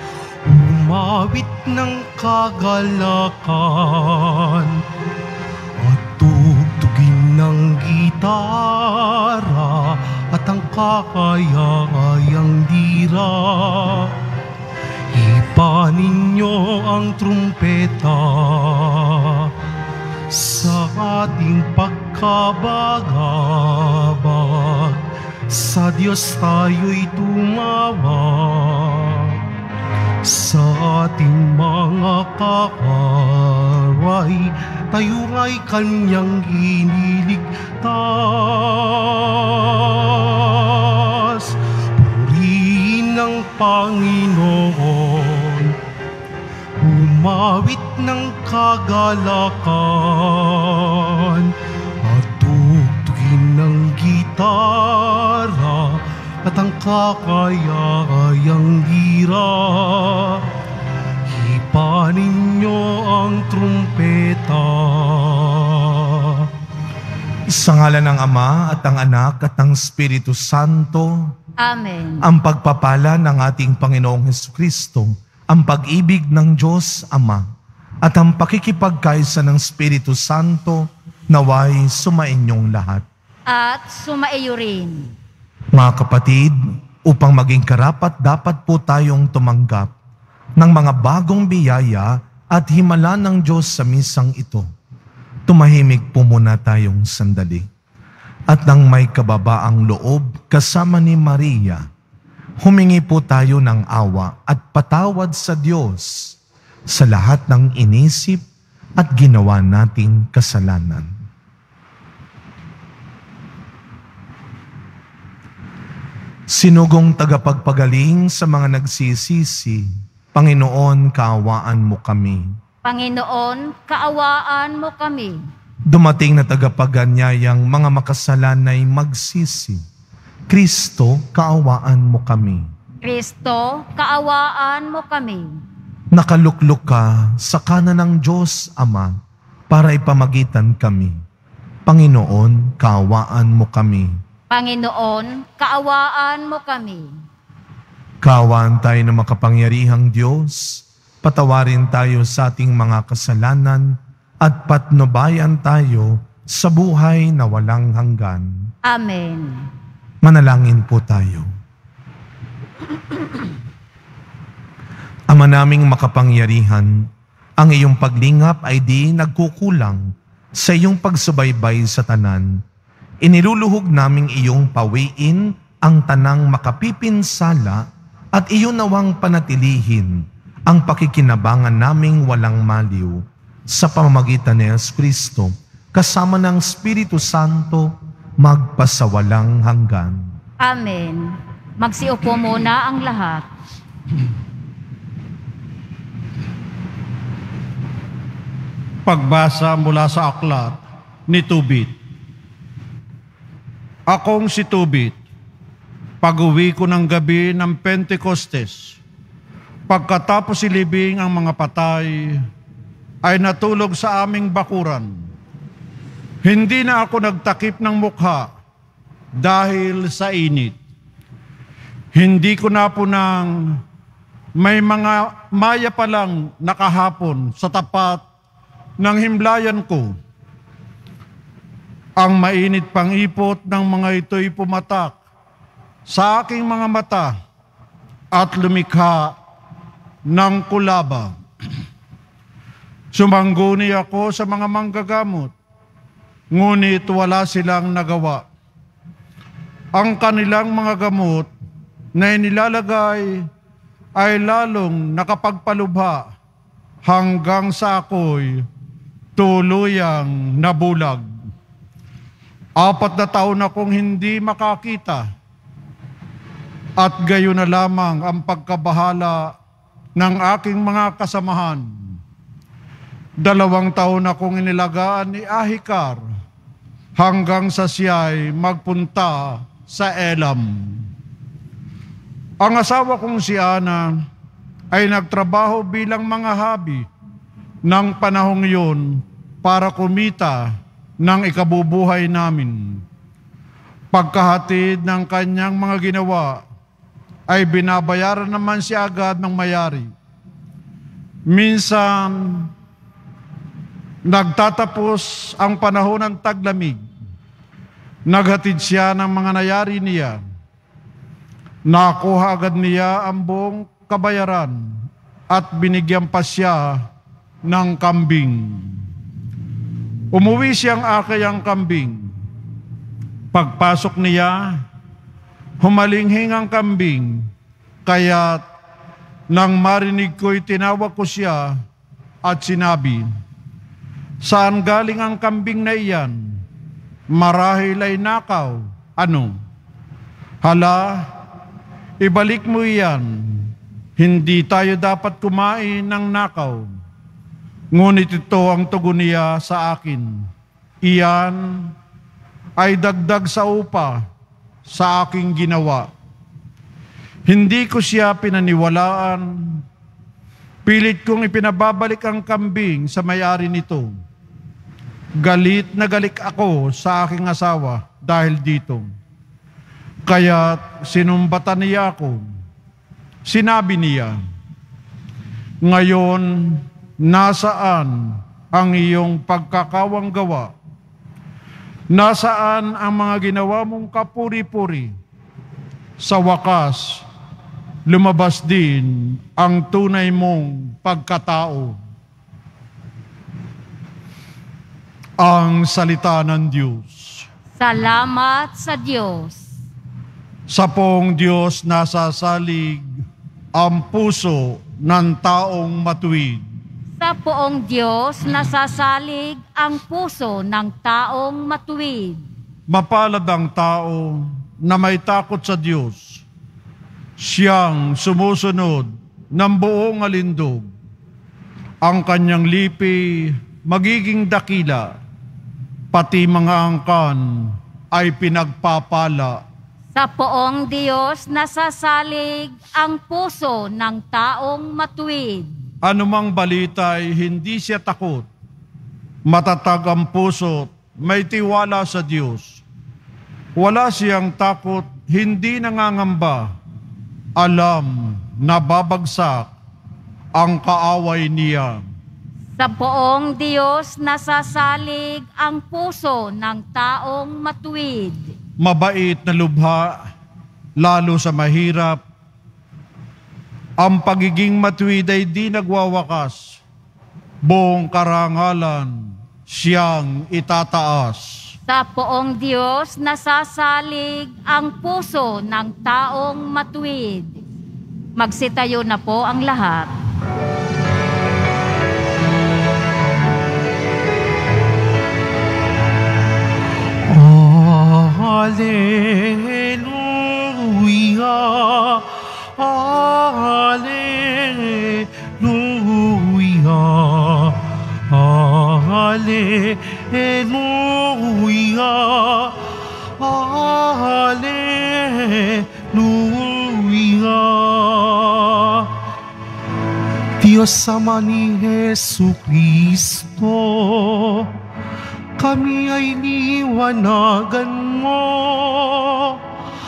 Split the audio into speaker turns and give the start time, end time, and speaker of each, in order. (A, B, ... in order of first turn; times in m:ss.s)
0:00.4-0:04.8 A
0:05.8-0:14.2 A
0:15.1-0:19.5 A
0:20.3-0:29.4 A
0:30.2-0:45.8 A
0:46.8-1:00.4 A
1:01.3-1:06.5 A
1:07.5-1:11.3 B
1:11.6-1:12.3 C
1:12.2-1:17.4 B
1:18.0-1:23.0 B
1:23.5-1:25.1 C
1:25.7-1:29.9 B
1:30.6-1:34.7 B
1:35.5-1:37.7 B
1:38.5-1:41.9 B
1:42.6-1:46.4 B
1:46.9-1:48.4 B
1:49.0-1:51.1 B
1:56.5-2:02.5 B
2:02.8-2:05.4 C
2:05.9-2:09.8 B
2:10.5-2:12.7 B
2:13.0-2:15.6 C
2:16.1-2:19.2 B
2:19.7-2:21.2 B
2:21.8-2:24.2 B
2:24.5-2:27.2 C
2:28.2-2:38.7 B
2:38.8-2:39.7 C
2:40.2-2:41.5 B
2:45.3-2:52.6 B
2:53.2-3:10.3 B
3:10.6-3:13.4 C
3:19.0-3:21.9 D
3:24.1-3:25.2 D
3:26.2-3:29.0 D
3:29.9-3:32.4 D
3:33.2-3:35.1 D
3:36.4-3:38.5 D
3:39.4-3:40.8 D
3:42.1-3:43.8 D
3:44.6-3:48.2 D
3:49.0-3:50.1 D
3:52.2-3:55.2 D
3:56.1-3:57.3 D
3:58.3-3:59.3 D
4:00.3-4:01.4 D
4:03.1-4:05.5 D
4:06.5-4:08.4 D
4:10.0-4:11.5 D
4:12.2-4:13.4 D
4:14.2-4:16.2 D
4:17.1-4:18.6 D
4:19.4-4:21.2 D
4:22.8-4:25.2 D
4:27.0-4:29.5 D
4:30.2-4:31.8 D
4:33.4-4:36.2 D
4:37.2-4:41.0 D
4:42.6-4:44.1 D
4:44.9-4:47.1 D
4:47.8-4:53.0 D
4:54.1-4:56.6 D
4:57.5-5:00.1 D
5:01.5-5:02.7 D
5:04.3-5:07.0 D
5:08.3-5:10.4 D
5:11.8-5:14.8 D
5:15.5-5:17.0 D
5:17.7-5:19.0 D
5:20.3-5:22.3 D
5:23.5-5:24.8 D
5:25.8-5:27.5 D
5:28.0-5:28.6 D
5:29.5-5:31.8 D
5:32.4-5:33.3 D
5:34.4-5:36.4 D
5:37.3-5:39.5 D
5:40.6-5:41.3 D
5:42.2-5:46.8 D
5:47.9-5:50.4 D
5:51.0-5:51.9 D
5:52.8-5:54.2 D
5:54.9-5:56.1 D
5:57.5-5:59.8 D
6:00.8-6:04.2 D
6:05.4-6:09.1 D
6:10.2-6:12.4 D
6:13.4-6:14.4 D
6:15.8-6:20.7 D
6:22.1-6:25.1 D
6:26.2-6:27.2 D
6:28.1-6:32.0 D
6:35.4-6:37.5 D
6:37.8-6:39.7 C
6:40.7-6:43.2 D
6:43.7-6:46.6 D
6:47.2-6:52.4 C
6:52.9-6:56.4 D
6:57.4-7:00.9 D
7:02.0-7:05.1 D
7:06.1-7:09.6 D
7:10.1-7:15.7 C
7:16.0-7:18.5 D
7:19.5-7:22.8 D
7:23.8-7:26.7 D
7:27.6-7:29.7 D
7:30.6-7:32.0 D
7:32.8-7:38.5 C
7:38.8-7:40.2 D
7:41.0-7:42.2 D
7:44.0-7:46.8 D
7:47.6-7:51.7 D
7:51.9-7:57.6 C
7:58.4-8:00.1 C
8:07.3-8:29.1 A
8:30.6-8:34.7 A
8:35.6-8:39.6 A